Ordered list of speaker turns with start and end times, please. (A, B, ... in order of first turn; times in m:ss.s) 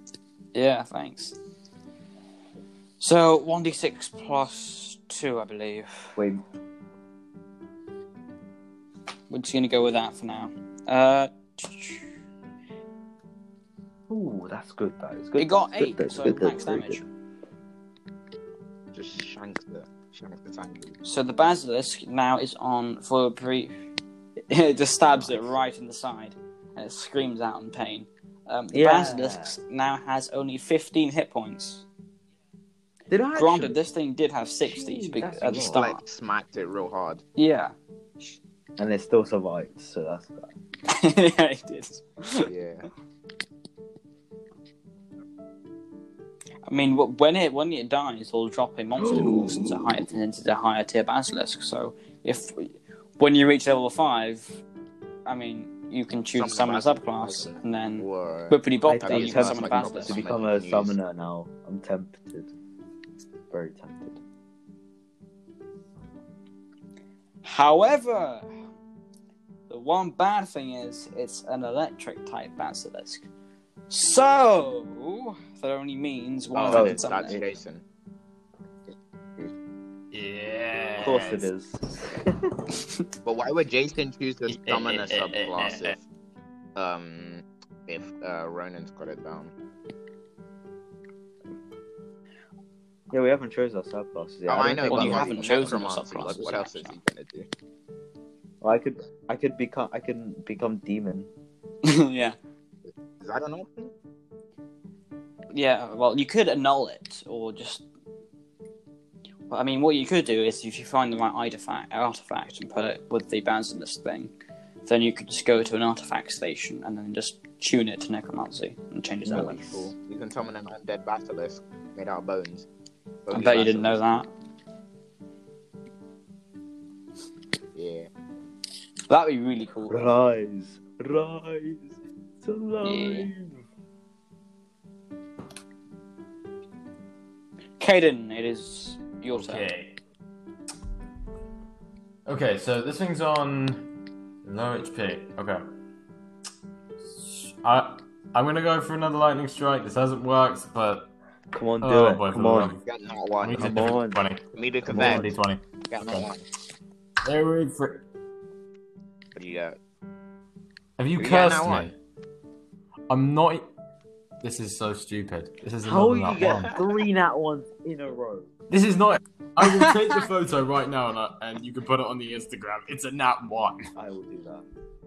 0:00.5-0:01.4 A
0:03.0-0:06.2 A
0:06.2-0:06.4 B
0:09.3-0:12.0 A
0:14.1-0:17.0 B
0:15.4-0:17.0 A
0:18.9-0:21.0 C
0:21.0-0:23.7 A
0:24.5-0:31.8 A
0:28.7-0:29.6 B
0:33.1-0:33.8 B
0:33.4-0:36.0 A
0:34.6-0:35.8 B
0:35.5-0:37.2 C
0:37.4-0:37.7 A
0:38.8-0:40.5 B
0:40.9-0:42.5 A
0:42.4-0:42.9 C
0:46.7-0:54.6 A
0:49.0-0:50.1 B
0:55.2-1:00.3 A
0:56.3-1:01.0 C
0:58.8-1:02.5 B
1:03.5-1:04.2 B
1:07.4-1:08.5 A
1:09.7-1:13.3 A
1:13.9-1:17.4 A
1:16.5-1:17.8 C
1:16.7-1:17.5 B
1:20.1-1:21.5 D
1:21.0-1:22.5 B
1:23.2-1:26.0 C
1:24.5-1:25.9 D
1:26.7-1:29.5 C
1:33.1-1:35.7 B
1:34.5-1:37.5 C
1:34.7-1:37.0 A
1:38.6-1:41.3 B
1:41.8-1:42.4 A
1:42.8-1:43.9 C
1:45.5-1:47.8 A
1:49.5-1:54.3 A
1:54.8-1:59.6 A
1:59.2-1:59.9 B
1:59.3-2:02.7 C
2:03.2-2:04.0 C
2:03.3-2:04.3 A
2:07.7-2:08.1 C
2:09.1-2:10.1 A
2:09.9-2:13.6 B
2:12.8-2:13.3 A
2:17.8-2:19.7 A
2:19.3-2:19.9 D
2:22.2-2:23.9 D
2:24.4-2:25.6 D
2:27.1-2:31.1 D
2:31.5-2:32.7 B
2:31.8-2:32.8 D
2:32.8-2:33.9 C
2:33.4-2:36.3 D
2:33.6-2:34.3 B
2:34.5-2:35.3 C
2:34.9-2:35.3 B
2:35.9-2:36.4 C
2:37.2-2:38.0 D
2:39.3-2:39.8 C
2:41.0-2:41.9 D
2:41.2-2:41.9 C
2:43.1-2:43.7 D
2:44.4-2:46.7 D
2:45.8-2:48.5 B
2:46.4-2:46.8 C
2:48.7-2:53.9 D
2:49.6-2:50.2 A
2:53.9-2:54.6 B